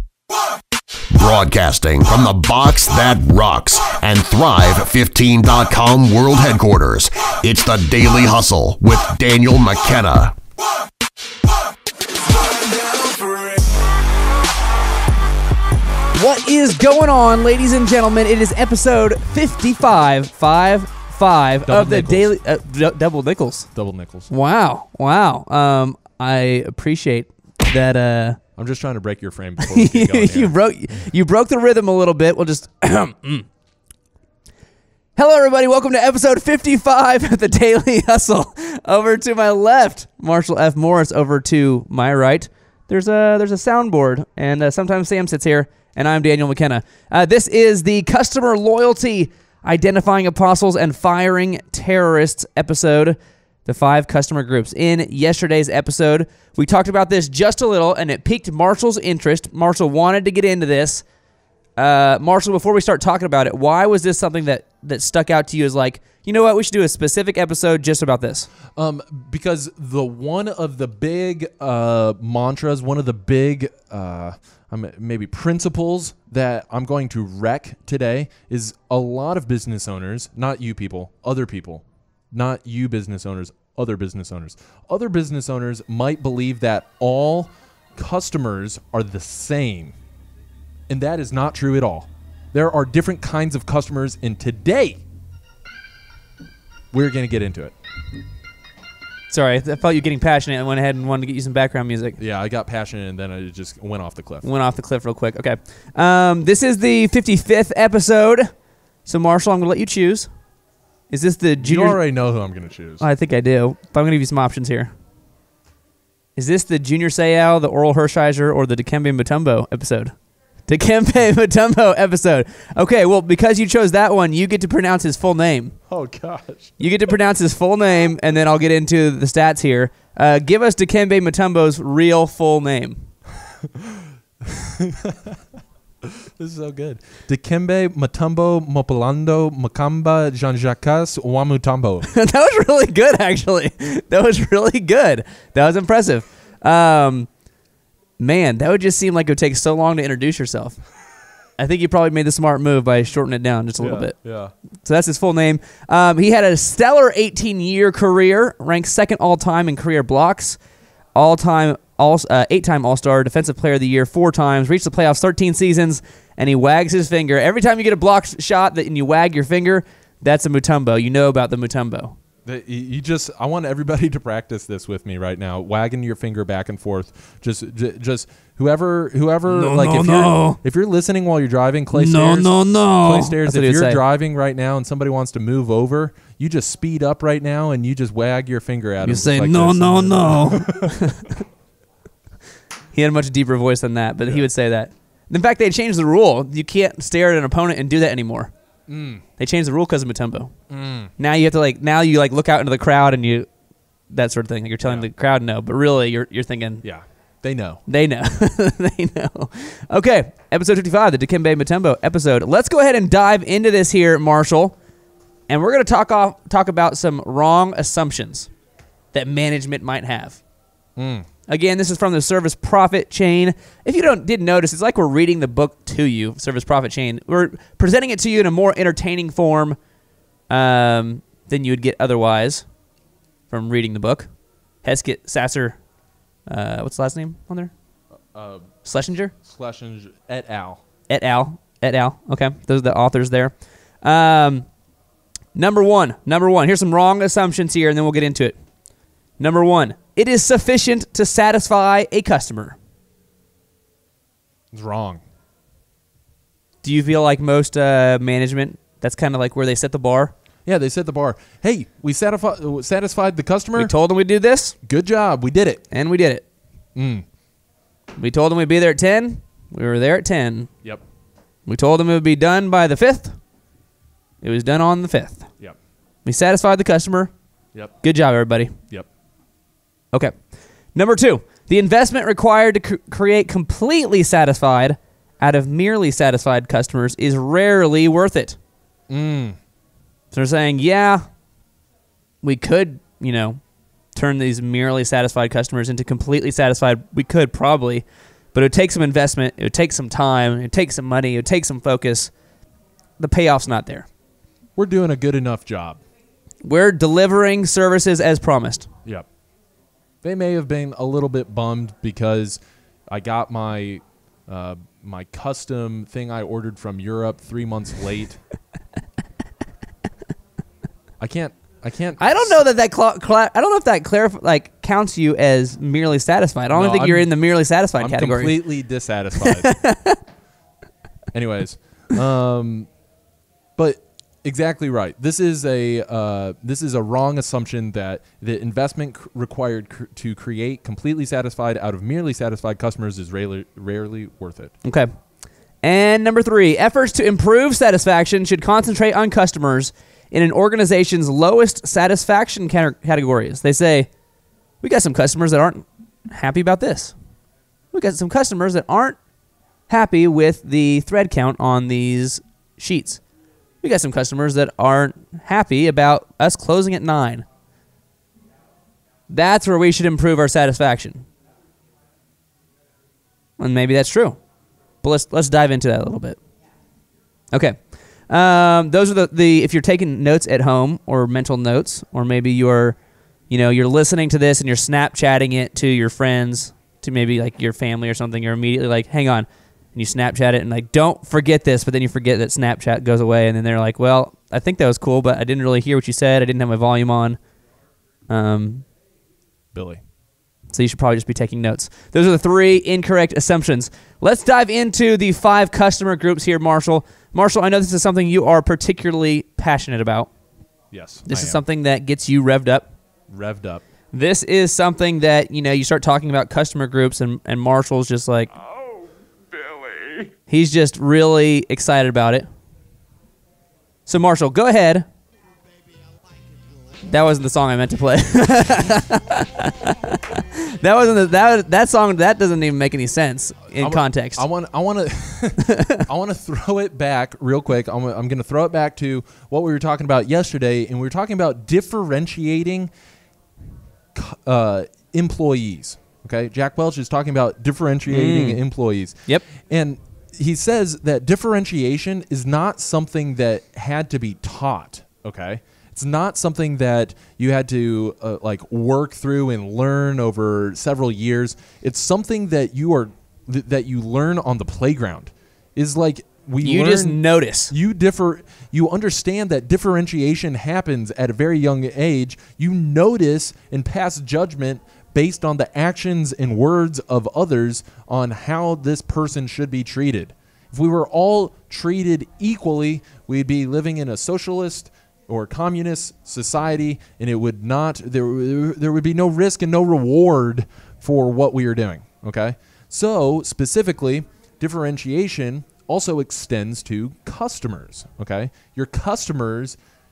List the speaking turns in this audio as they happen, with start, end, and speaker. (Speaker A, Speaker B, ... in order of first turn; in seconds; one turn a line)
Speaker A: 1.1-10.4
Speaker B: 16.1-23.7
Speaker C: 21.7-22.3
Speaker C: 23.8-24.3
Speaker B: 24.3-28.4
Speaker C: 28.6-30.6
Speaker B: 29.6-33.5
Speaker B: 35.2-61.1
Speaker B: 61.8-68.5
Speaker C: 68.7-90.0
Speaker C: 90.9-95.0
Speaker C: 96.9-97.7
Speaker B: 99.3-102.2
Speaker C: 102.2-104.5
Speaker B: 104.4-108.5
Speaker B: 109.0-110.3
Speaker B: 111.1-112.0
Speaker C: 111.6-113.0
Speaker B: 113.0-114.9
Speaker B: 116.4-120.1
Speaker B: 120.7-125.8
Speaker C: 125.9-126.8
Speaker B: 126.8-133.1
Speaker C: 133.6-135.4
Speaker C: 136.0-142.1
Speaker B: 142.1-147.3
Speaker B: 148.2-150.8
Speaker B: 151.6-154.2
Speaker C: 153.8-154.5
Speaker B: 154.8-160.6
Speaker B: 161.2-172.2
Speaker C: 172.4-191.2
Speaker B: 179.5-180.6
Speaker B: 181.9-184.0
Speaker B: 189.0-191.4
Speaker B: 192.9-198.5
Speaker C: 198.9-199.2
Speaker B: 199.4-200.5
Speaker C: 200.7-201.1
Speaker B: 201.2-203.5
Speaker B: 204.1-206.8
Speaker C: 206.8-207.8
Speaker B: 207.9-214.8
Speaker B: 215.5-218.5
Speaker B: 219.1-220.4
Speaker C: 221.0-221.3
Speaker B: 221.5-229.8
Speaker B: 230.5-232.7
Speaker B: 233.5-234.3
Speaker B: 234.8-235.8
Speaker B: 236.5-237.7
Speaker C: 238.3-238.7
Speaker B: 238.8-239.3
Speaker C: 239.4-240.8
Speaker B: 241.1-244.7
Speaker B: 245.5-248.6
Speaker B: 249.4-252.8
Speaker C: 254.7-255.2
Speaker B: 256.8-260.3
Speaker C: 260.7-263.9
Speaker B: 263.8-264.8
Speaker C: 264.8-265.8
Speaker B: 265.9-266.4
Speaker C: 266.9-267.2
Speaker B: 268.2-270.7
Speaker B: 271.7-273.4
Speaker B: 274.4-275.5
Speaker B: 276.2-277.3
Speaker B: 278.0-278.7
Speaker B: 280.9-288.6
Speaker C: 289.1-289.6
Speaker B: 290.3-291.2
Speaker B: 292.4-293.6
Speaker B: 294.1-302.3
Speaker B: 303.2-304.1
Speaker C: 304.8-306.0
Speaker B: 306.6-308.9
Speaker C: 310.2-318.4
Speaker C: 321.2-322.6
Speaker B: 322.2-328.6
Speaker C: 326.7-327.3
Speaker C: 328.0-329.7
Speaker B: 329.4-330.2
Speaker C: 331.3-332.9
Speaker C: 333.8-344.8
Speaker B: 344.8-345.1
Speaker B: 345.8-354.1
Speaker B: 354.8-357.1
Speaker B: 357.9-359.2
Speaker B: 359.9-363.2
Speaker B: 363.8-367.5
Speaker B: 369.3-371.3
Speaker B: 373.6-374.4
Speaker B: 375.0-376.4
Speaker B: 377.5-383.0
Speaker B: 383.5-397.4
Speaker B: 398.3-398.9
Speaker C: 399.7-400.0
Speaker B: 400.7-410.3
Speaker C: 410.9-411.6
Speaker B: 411.3-412.9
Speaker C: 413.3-413.8
Speaker B: 414.1-418.5
Speaker C: 419.9-420.2
Speaker B: 420.5-422.5
Speaker B: 424.1-425.1
Speaker B: 427.1-434.5
Speaker C: 433.8-442.9
Speaker B: 435.6-436.1
Speaker C: 444.1-499.8
Speaker B: 448.1-448.6
Speaker B: 466.6-467.7